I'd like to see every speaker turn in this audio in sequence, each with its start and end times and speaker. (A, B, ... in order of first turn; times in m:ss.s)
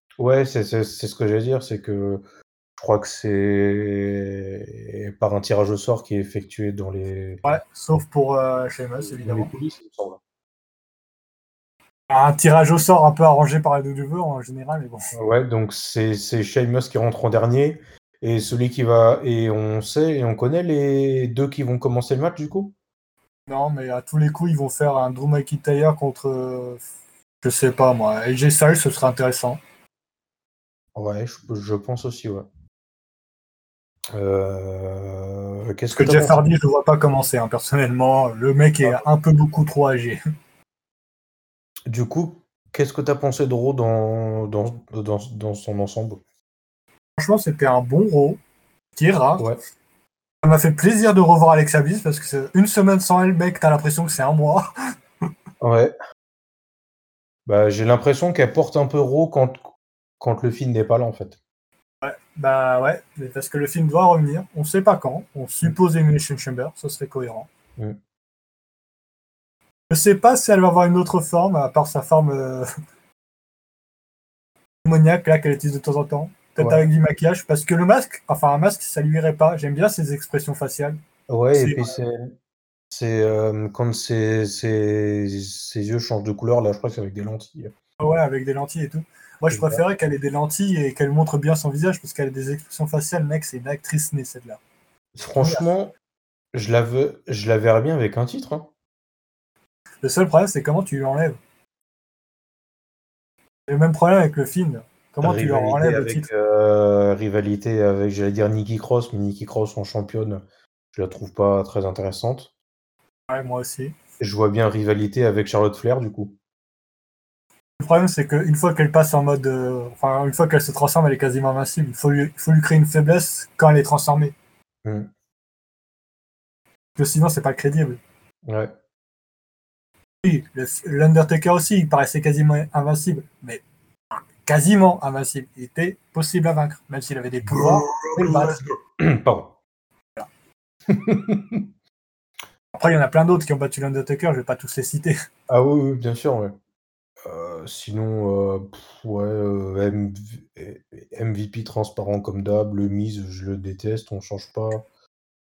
0:00.2-0:02.2 A
0:02.8-0:07.4 A
0:07.4-0:09.5 B
0:09.2-0:10.2 A
0:12.1-0:15.1 B
0:15.1-0:22.7 A
0:23.5-0:26.8 B
0:27.4-0:29.6 B
0:30.9-0:32.5 A
0:34.1-0:36.4 A
0:35.9-0:40.2 B
0:41.9-0:46.2 A
0:47.2-0:48.4 B
0:49.0-0:49.4 B
0:50.4-0:54.7 B
0:55.6-0:55.9 A
0:57.4-0:59.6 A
1:00.2-1:01.4 A
1:02.0-1:07.5 B
1:09.9-1:12.6 B
1:14.8-1:21.0 B
1:16.6-1:16.8 A
1:21.3-1:22.3 A
1:21.5-1:21.9 B
1:22.9-1:27.7 A
1:28.0-1:34.6 B
1:29.5-1:29.8 A
1:35.1-1:35.9 A
1:35.4-1:35.7 B
1:36.5-1:38.7 A
1:40.0-1:41.4 B
1:43.7-1:46.3 B
1:45.2-1:50.4 A
1:50.9-1:52.5 A
1:53.3-1:54.0 B
1:54.2-1:56.3 A
1:57.8-2:04.3 B
2:04.8-2:05.1 A
2:07.0-2:08.0 B
2:08.5-2:08.7 A
2:10.2-2:13.6 B
2:14.4-2:18.6 B
2:17.5-2:19.6 A
2:20.9-2:21.6 A
2:22.7-2:25.1 B
2:25.5-2:26.5 A
2:27.2-2:34.8 A